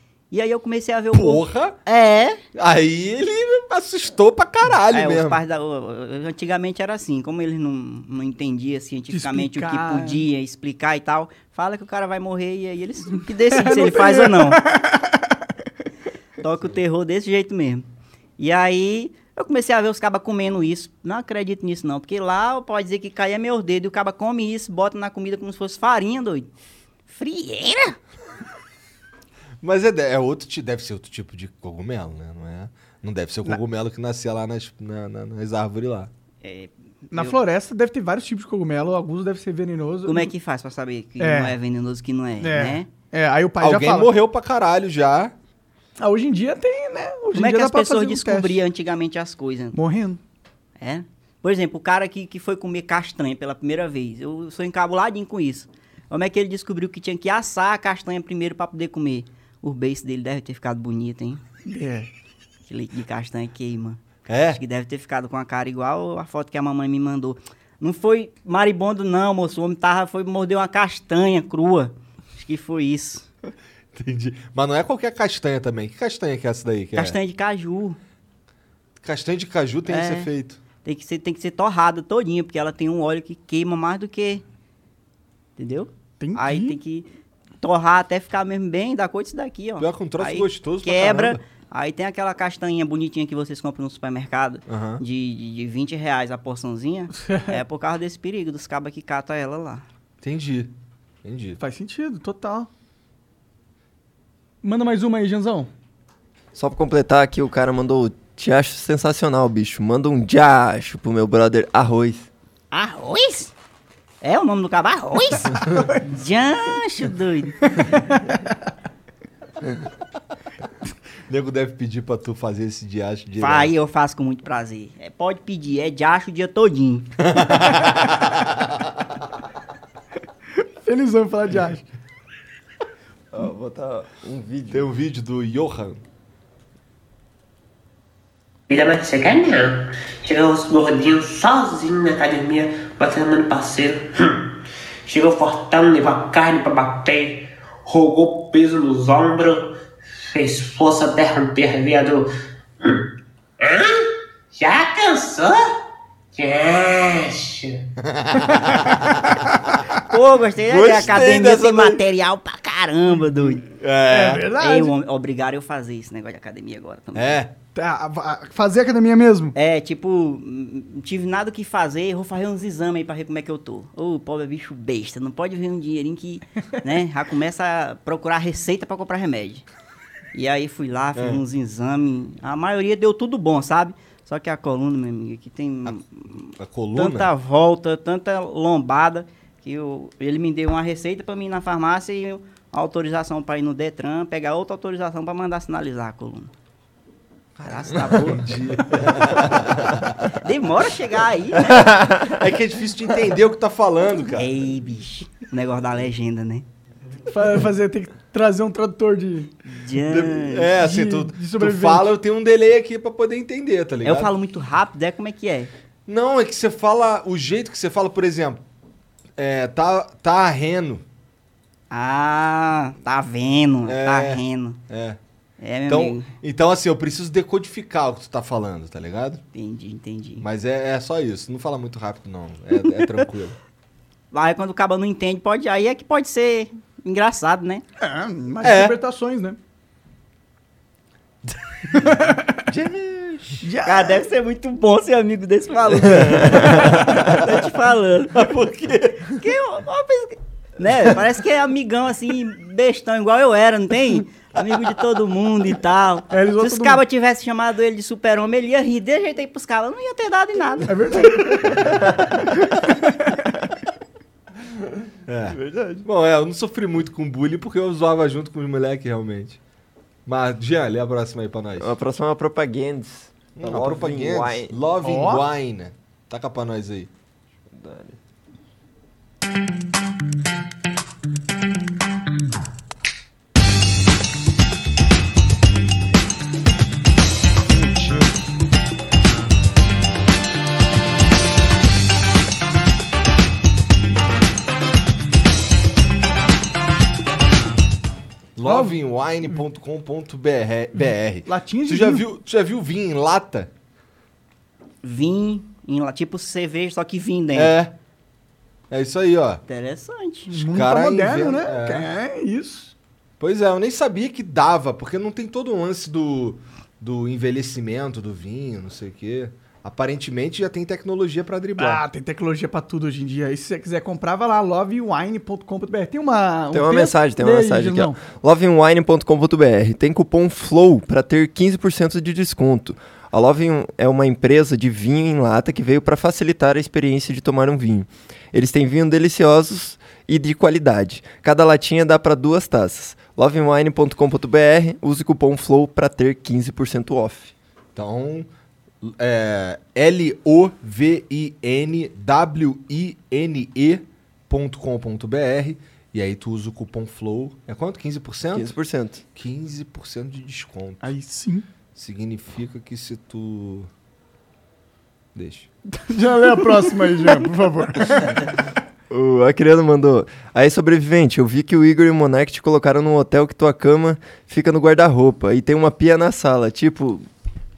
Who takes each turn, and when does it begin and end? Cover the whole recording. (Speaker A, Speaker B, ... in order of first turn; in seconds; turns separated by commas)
Speaker A: 0.3-2.4, Speaker B: 1.1-1.8, Speaker B: 2.5-5.4, Speaker A: 4.9-14.6, Speaker C: 9.1-10.2, Speaker C: 13.5-15.3, Speaker A: 16.4-17.9, Speaker A: 18.4-26.5, Speaker A: 27.1-28.0, Speaker B: 29.6-36.1, Speaker A: 36.4-37.4, Speaker C: 37.1-40.3, Speaker A: 40.0-42.9, Speaker C: 41.2-41.6, Speaker C: 42.4-44.1, Speaker B: 43.6-45.3, Speaker C: 46.0-48.6, Speaker A: 47.3-49.8, Speaker C: 49.7-50.2, Speaker A: 50.8-61.4, Speaker C: 61.6-62.1, Speaker A: 62.7-73.3, Speaker B: 64.3-64.6, Speaker B: 73.9-77.2, Speaker A: 76.9-78.0, Speaker B: 79.0-80.6, Speaker A: 79.9-80.3, Speaker A: 80.8-84.4, Speaker A: 85.6-87.1, Speaker C: 86.2-86.8, Speaker A: 87.6-99.8, Speaker B: 89.8-91.4, Speaker B: 94.7-95.0, Speaker C: 97.1-97.6, Speaker B: 100.2-100.7, Speaker B: 101.2-101.6, Speaker C: 101.6-102.7, Speaker C: 104.6-105.7, Speaker D: 106.5-112.3, Speaker A: 112.7-113.5, Speaker A: 114.2-117.8, Speaker B: 121.3-123.7, Speaker A: 123.4-127.1, Speaker B: 127.2-128.8, Speaker C: 130.8-131.8, Speaker D: 133.3-134.8, Speaker B: 134.7-136.0, Speaker E: 138.7-144.5, Speaker E: 145.1-152.3, Speaker E: 152.8-153.1, Speaker E: 153.6-155.6, Speaker E: 156.3-157.8, Speaker B: 158.0-159.7, Speaker C: 158.5-158.9, Speaker A: 160.0-163.6, Speaker B: 160.6-162.0, Speaker B: 163.6-164.5, Speaker C: 164.1-164.9, Speaker A: 164.6-167.4, Speaker B: 167.1-167.5, Speaker C: 167.7-169.5, Speaker A: 169.5-179.6, Speaker A: 180.3-196.5, Speaker B: 181.2-181.4, Speaker B: 186.6-187.3, Speaker B: 197.6-200.2, Speaker A: 197.6-198.5, Speaker A: 200.4-201.9, Speaker B: 201.6-204.5, Speaker A: 204.3-206.7, Speaker C: 207.3-209.5, Speaker A: 209.7-210.7, Speaker B: 210.0-214.3, Speaker C: 210.7-212.1, Speaker A: 214.0-215.7, Speaker B: 216.1-218.6, Speaker B: 219.4-221.0, Speaker A: 221.9-224.8, Speaker B: 223.8-225.2, Speaker A: 225.6-226.3, Speaker B: 225.9-229.4, Speaker A: 229.5-230.4, Speaker B: 230.4-233.6, Speaker A: 234.3-237.8, Speaker C: 238.0-239.6, Speaker B: 238.6-239.0, Speaker B: 241.5-242.1, Speaker B: 242.7-243.6, Speaker C: 243.6-244.2, Speaker A: 243.8-248.4, Speaker B: 246.1-247.4, Speaker B: 248.3-249.4, Speaker A: 249.3-261.0, Speaker C: 256.3-257.0, Speaker C: 260.9-261.8, Speaker B: 265.3-269.6, Speaker D: 265.5-266.0, Speaker B: 270.2-271.9, Speaker D: 271.8-274.7, Speaker B: 273.6-277.1, Speaker C: 275.0-275.4, Speaker D: 277.7-278.2, Speaker B: 298.6-303.7, Speaker C: 298.6-299.0, Speaker C: 301.4-302.2, Speaker A: 305.0-307.7, Speaker B: 307.5-307.9, Speaker B: 308.9-309.6, Speaker A: 309.7-310.5, Speaker C: 310.5-312.9, Speaker B: 310.7-312.1, Speaker B: 313.4-322.0, Speaker C: 321.8-328.2, Speaker D: 326.7-347.5, Speaker B: 347.9-348.5, Speaker B: 349.0-358.8, Speaker D: 358.5-359.2, Speaker B: 359.3-361.1, Speaker C: 361.0-361.6, Speaker B: 361.9-363.9, Speaker B: 365.3-365.7, Speaker C: 365.9-368.4, Speaker D: 369.1-377.2